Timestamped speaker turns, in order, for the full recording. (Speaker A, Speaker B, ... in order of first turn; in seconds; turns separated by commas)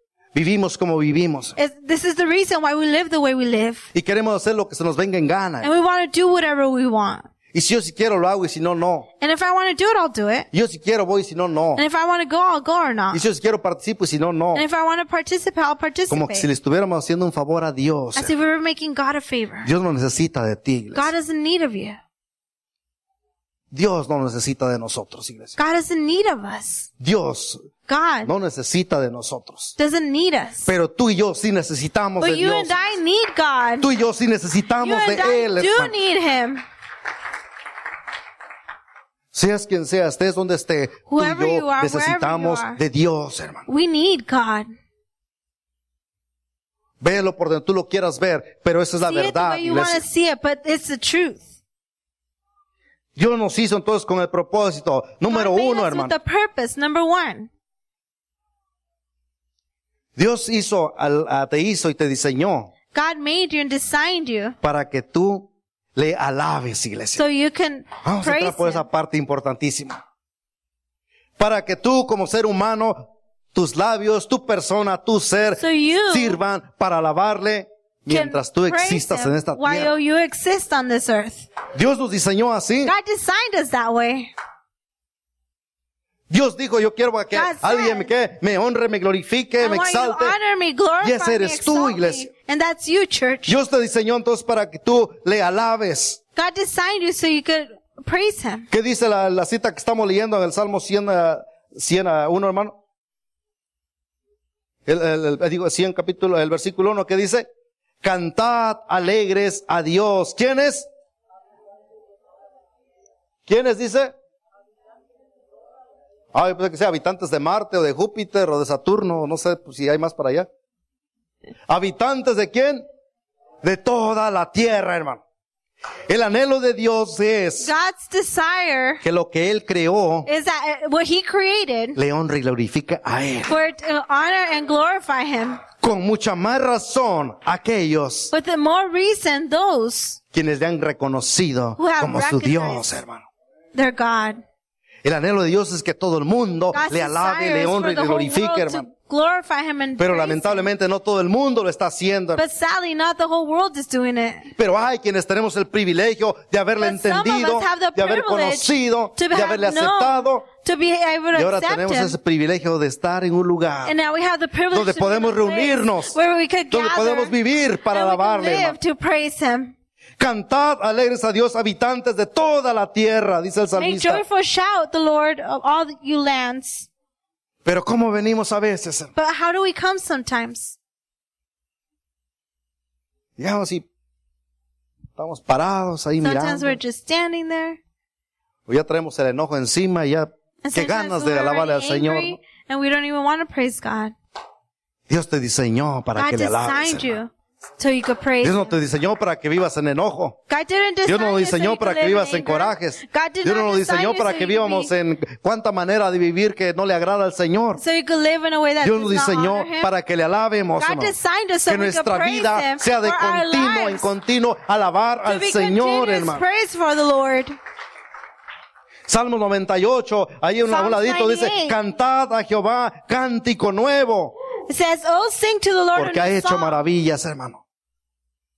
Speaker A: 0.3-1.6, Speaker B: 1.6-3.9, Speaker A: 3.9-5.7, Speaker B: 5.6-7.3, Speaker A: 7.5-9.1, Speaker B: 9.2-10.5, Speaker A: 10.5-11.8, Speaker B: 11.8-13.2, Speaker A: 13.1-14.6, Speaker B: 14.5-16.5, Speaker A: 16.1-18.3, Speaker B: 18.1-19.7, Speaker A: 19.6-21.1, Speaker B: 20.9-22.0, Speaker A: 23.7-25.6, Speaker B: 25.6-26.9, Speaker A: 27.0-27.7, Speaker B: 27.9-28.3, Speaker A: 28.2-29.8, Speaker B: 29.8-30.7, Speaker A: 30.6-32.8, Speaker B: 32.2-33.9, Speaker A: 33.8-35.9, Speaker B: 34.8-36.6, Speaker A: 39.3-43.7, Speaker B: 41.1-42.8, Speaker B: 43.7-44.7, Speaker A: 47.0-50.0, Speaker B: 49.0-51.5, Speaker A: 53.1-56.1, Speaker B: 55.3-57.5, Speaker A: 60.1-62.7, Speaker B: 62.9-64.5, Speaker A: 64.6-67.2, Speaker B: 67.2-68.8, Speaker A: 68.0-70.0, Speaker A: 71.4-79.9, Speaker B: 75.6-76.4, Speaker B: 78.1-81.5, Speaker A: 81.7-82.9, Speaker B: 82.8-84.3, Speaker A: 86.3-90.4, Speaker B: 87.3-88.1, Speaker B: 89.6-93.5, Speaker A: 91.0-92.3, Speaker A: 93.5-96.2, Speaker B: 96.3-98.7, Speaker A: 98.7-102.7, Speaker A: 104.8-107.5, Speaker A: 108.0-110.9, Speaker A: 113.5-114.1, Speaker A: 116.3-120.5, Speaker A: 121.7-122.8, Speaker A: 123.6-125.2, Speaker A: 126.1-127.7, Speaker B: 127.6-129.0, Speaker A: 129.0-130.3, Speaker B: 130.2-132.0, Speaker A: 131.9-133.6, Speaker B: 133.5-135.6, Speaker A: 135.8-138.3, Speaker B: 138.3-140.2, Speaker A: 140.3-143.2, Speaker B: 141.8-142.9, Speaker B: 143.7-144.4, Speaker A: 145.0-148.9, Speaker B: 146.7-150.7, Speaker A: 150.0-152.4, Speaker B: 152.3-154.5, Speaker A: 154.5-160.5, Speaker B: 156.8-162.2, Speaker A: 161.3-163.9, Speaker B: 163.8-169.7, Speaker A: 164.7-166.2, Speaker A: 166.7-168.8, Speaker A: 170.2-174.2, Speaker B: 173.8-176.9, Speaker A: 177.6-179.1, Speaker B: 179.2-180.8, Speaker A: 183.4-183.8, Speaker A: 185.2-186.8, Speaker B: 186.2-187.8, Speaker A: 188.7-192.4, Speaker B: 190.6-194.1, Speaker A: 195.1-197.2, Speaker B: 196.2-198.7, Speaker A: 198.4-200.4, Speaker B: 200.5-204.9, Speaker A: 201.1-207.8, Speaker B: 207.8-209.9, Speaker A: 208.8-211.1, Speaker B: 210.8-214.1, Speaker A: 211.7-216.4, Speaker B: 215.2-217.6, Speaker A: 219.1-224.3, Speaker B: 220.7-221.8, Speaker B: 224.7-226.8, Speaker A: 225.9-227.6